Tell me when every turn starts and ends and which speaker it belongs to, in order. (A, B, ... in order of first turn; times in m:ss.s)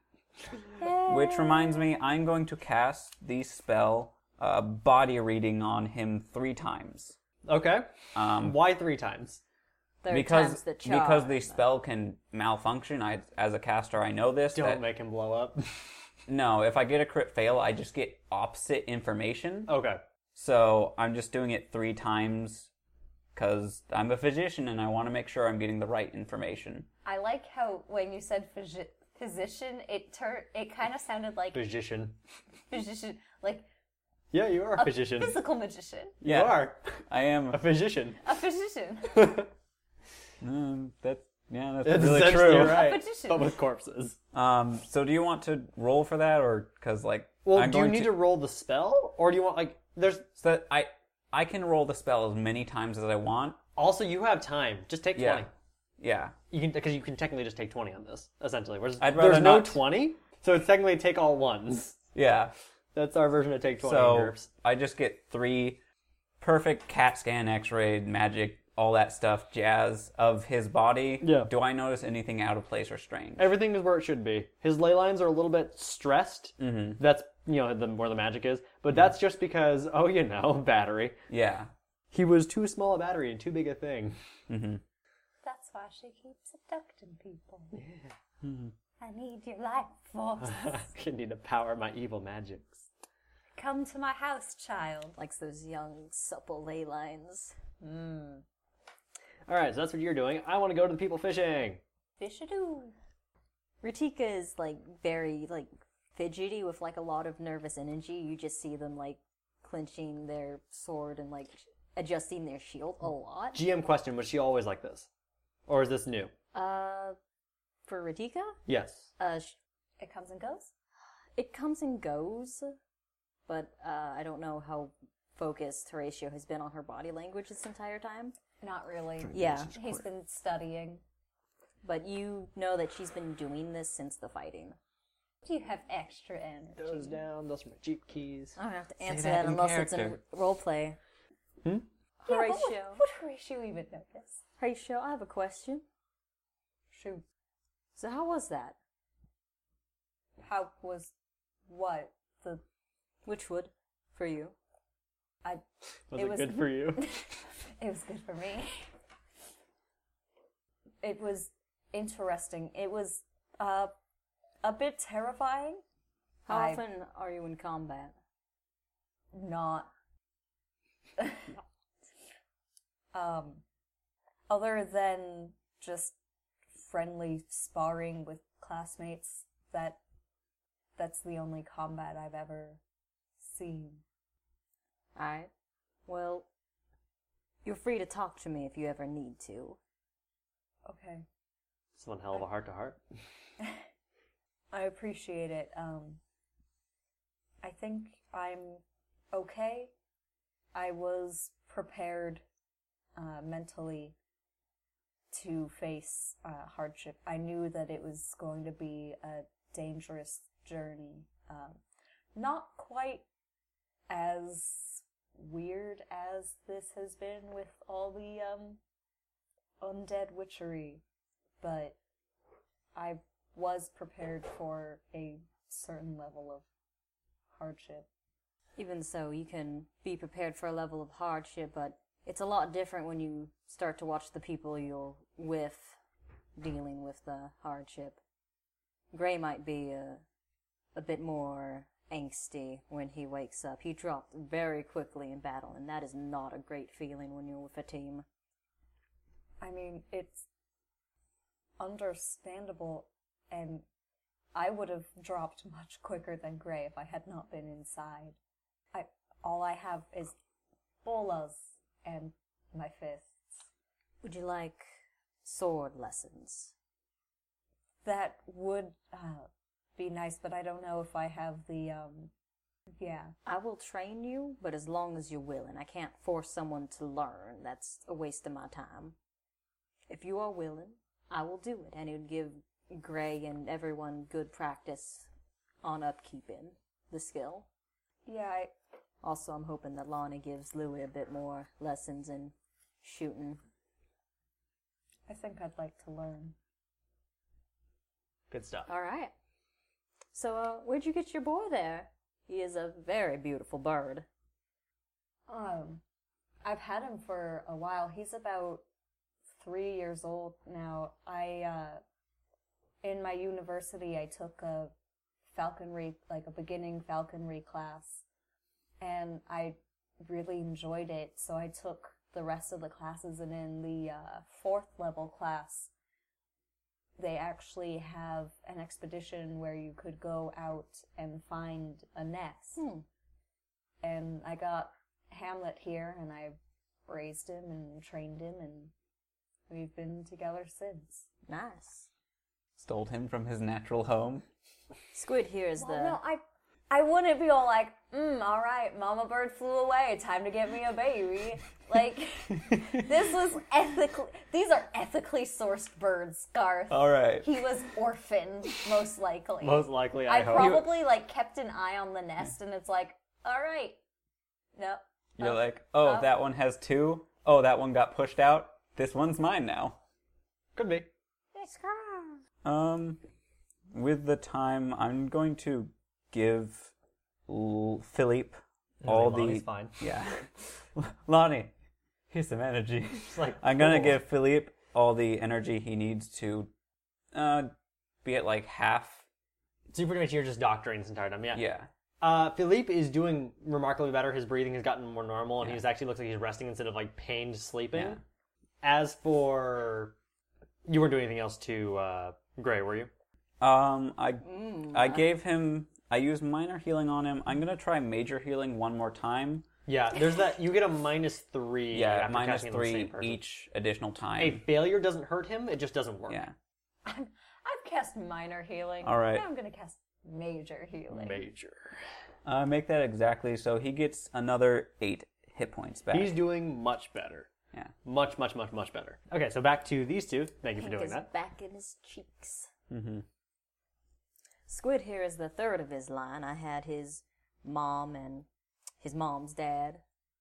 0:00.8-0:01.9 A
0:01.0-0:07.2 B
0:07.4-0:09.4 C
0:08.1-0:08.6 B
0:10.0-0:11.6 A
0:10.1-0:14.8 B
0:14.5-0:15.6 C
0:16.3-0:19.7 B
0:19.7-0:20.0 C
0:20.3-0:22.7 B
0:23.3-0:26.9 B
0:27.0-0:31.6 D
0:31.5-0:32.2 C
0:32.7-0:33.7 D
0:34.3-0:35.4 C
0:34.8-0:36.2 D
0:36.2-0:37.0 C
0:36.2-0:37.6 B
0:37.5-0:38.2 C
0:38.2-0:39.4 D
0:39.1-0:39.5 C
0:40.4-0:42.9 B
0:41.8-0:44.2 C
0:42.6-0:43.6 D
0:44.3-0:48.2 B
0:47.4-0:50.3 C
0:50.4-0:53.6 B
0:53.8-0:55.5 C
0:55.2-0:55.5 B
0:56.0-0:56.4 B
0:56.5-1:02.0 C
0:59.0-0:59.8 B
1:02.1-1:02.5 B
1:02.9-1:04.5 C
1:03.8-1:05.8 B
1:06.4-1:13.5 B
1:11.2-1:11.5 C
1:13.4-1:21.2 C
1:16.6-1:17.0 B
1:21.3-1:21.7 B
1:22.1-1:24.2 C
1:24.5-1:24.8 B
1:25.4-1:27.7 D
1:27.7-1:28.1 C
1:28.4-1:28.7 B
1:29.0-1:30.9 D
1:30.4-1:32.9 C
1:33.5-1:35.1 D
1:35.2-1:37.5 A
1:37.8-1:38.4 D
1:39.5-1:41.8 C
1:42.2-1:42.9 D
1:43.8-1:53.6 A
1:53.5-1:55.1 C
1:55.7-1:56.3 C
1:56.5-1:57.2 A
1:57.8-1:58.6 A
1:58.7-1:59.1 C
1:59.2-1:59.5 A
2:00.0-2:00.7 D
2:01.3-2:02.7 A
2:03.5-2:08.3 A
2:08.6-2:11.0 D
2:09.3-2:09.9 A
2:11.8-2:14.8 A
2:15.4-2:17.2 D
2:16.8-2:18.6 C
2:18.6-2:21.0 A
2:19.0-2:20.2 B
2:22.2-2:23.0 A
2:22.3-2:24.4 D
2:24.6-2:25.8 A
2:26.9-2:27.2 D
2:28.0-2:28.8 A
2:30.4-2:31.1 D
2:31.7-2:32.6 D
2:33.2-2:34.5 A
2:36.1-2:37.0 C
2:36.1-2:38.8 D
2:41.0-2:43.9 D
2:44.6-2:45.8 D
2:46.4-2:48.1 A
2:46.5-2:46.8 D
2:49.3-2:49.9 D
2:51.2-2:51.6 D
2:53.1-2:53.6 D
2:54.5-2:56.1 D
2:56.7-3:00.0 D
3:01.0-3:02.8 D
3:03.4-3:04.0 D
3:05.2-3:05.5 A
3:06.1-3:06.4 A
3:07.6-3:09.8 A
3:10.8-3:11.2 D
3:12.0-3:13.0 C
3:14.7-3:16.2 D
3:17.6-3:19.9 D
3:20.7-3:22.4 D
3:23.2-3:24.1 D
3:25.3-3:31.8 D
3:32.3-3:33.2 D
3:34.1-3:38.8 D
3:39.8-3:41.0 D
3:41.6-3:42.0 D
3:42.9-3:46.6 D
3:47.5-3:48.1 D
3:48.8-3:56.0 A
3:56.6-3:58.2 A
3:59.1-4:00.2 A
4:00.9-4:08.2 A
4:09.6-4:10.4 D
4:11.8-4:13.8 D
4:14.5-4:18.4 D
4:18.9-4:20.3 D
4:21.0-4:23.3 D
4:24.2-4:24.9 A
4:25.4-4:26.7 A
4:28.0-4:32.3 D
4:33.0-4:33.3 D
4:33.4-4:39.2 A
4:40.1-4:45.3 A
4:45.8-4:47.7 A
4:48.2-4:48.7 D
4:49.2-4:53.6 A
4:55.3-4:56.6 D
4:58.5-4:58.9 C
4:58.9-4:59.3 A
5:00.3-5:04.2 A
5:05.5-5:06.0 D
5:06.6-5:08.8 D
5:09.6-5:12.0 D
5:13.0-5:14.9 D
5:15.5-5:18.2 D
5:19.0-5:25.9 D
5:27.2-5:32.8 D
5:32.8-5:33.0 A
5:34.0-5:38.9 D
5:39.7-5:41.3 D
5:41.5-5:42.1 A
5:42.8-5:44.4 B
5:45.1-5:46.2 A
5:45.8-6:04.0 D
5:56.9-5:57.6 B
5:59.6-6:00.9 C
6:04.8-6:06.3 D
6:05.4-6:10.0 B
6:10.8-6:11.1 C
6:11.6-6:12.4 D
6:12.6-6:13.2 B
6:13.9-6:16.9 B
6:17.5-6:21.7 B
6:19.0-6:20.0 C
6:22.3-6:26.7 B
6:23.3-6:24.2 C
6:27.3-6:27.7 B
6:28.2-6:29.2 B
6:29.9-6:31.6 C
6:31.5-6:31.9 B
6:32.2-6:38.2 C
6:37.9-6:38.2 B
6:38.8-6:40.2 C
6:40.9-6:43.1 C
6:43.6-6:49.6 B
6:44.4-6:45.2 A
6:49.9-6:53.4 C
6:51.9-6:54.6 B
6:54.4-6:56.4 C
6:56.3-6:56.5 B
6:57.0-7:01.4 D
6:59.0-6:59.4 B
7:01.1-7:02.0 C
7:02.4-7:06.4 B
7:06.1-7:07.5 C
7:08.0-7:11.3 C
7:10.8-7:12.7 A
7:12.9-7:13.2 B
7:14.7-7:18.4 A
7:19.0-7:20.0 A